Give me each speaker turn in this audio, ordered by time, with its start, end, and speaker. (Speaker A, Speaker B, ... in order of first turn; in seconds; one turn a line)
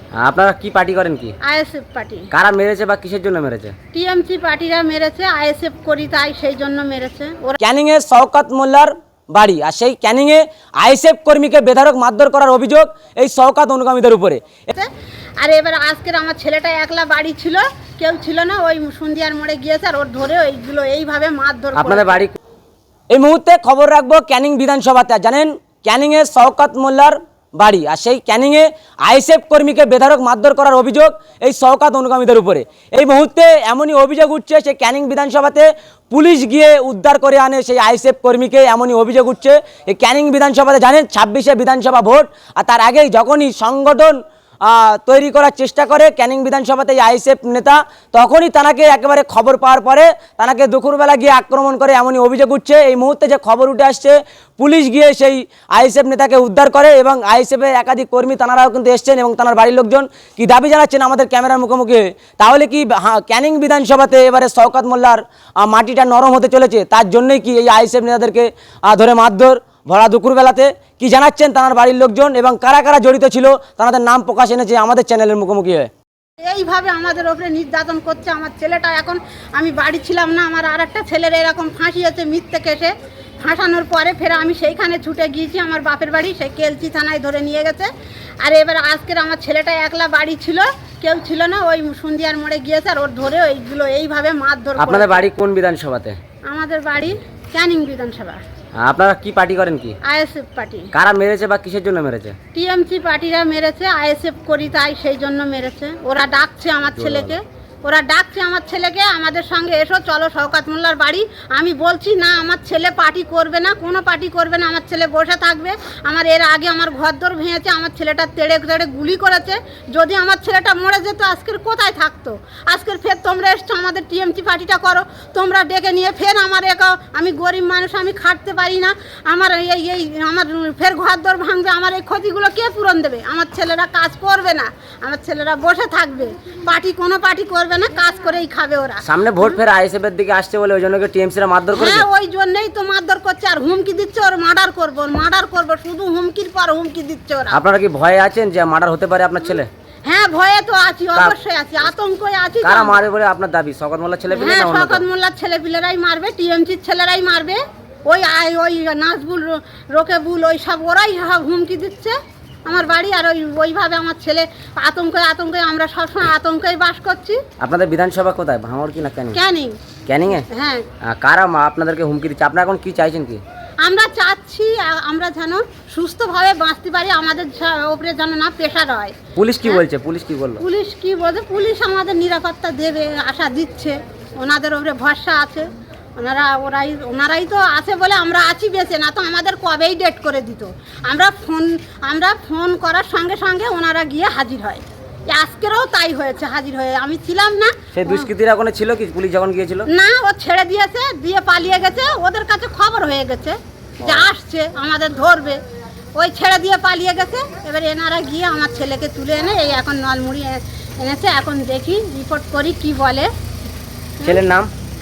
Speaker A: 0.1-1.3
Speaker B: 1.4-2.3
Speaker A: 2.3-3.7
Speaker B: 3.9-7.6
Speaker A: 7.6-14.7
Speaker B: 14.7-22.2
Speaker A: 21.8-22.4
Speaker A: 23.1-75.9
Speaker B: 76.4-87.9
Speaker B: 88.4-95.2
Speaker A: 94.8-96.2
Speaker B: 96.5-98.4
Speaker A: 98.8-100.0
Speaker B: 100.0-100.9
Speaker A: 100.9-102.3
Speaker B: 102.5-139.6
Speaker A: 107.0-107.3
Speaker A: 139.0-142.1
Speaker B: 141.7-147.6
Speaker A: 147.5-149.7
Speaker B: 150.1-153.0
Speaker A: 152.6-155.0
Speaker B: 154.3-167.4
Speaker A: 167.6-169.4
Speaker B: 169.3-169.8
Speaker A: 170.1-170.5
Speaker B: 170.4-170.9
Speaker A: 171.0-173.4
Speaker B: 173.8-179.8
Speaker A: 179.3-180.6
Speaker B: 180.6-198.3
Speaker A: 197.9-199.9
Speaker B: 199.9-205.6
Speaker A: 204.0-204.3
Speaker B: 206.2-213.3
Speaker A: 214.2-214.7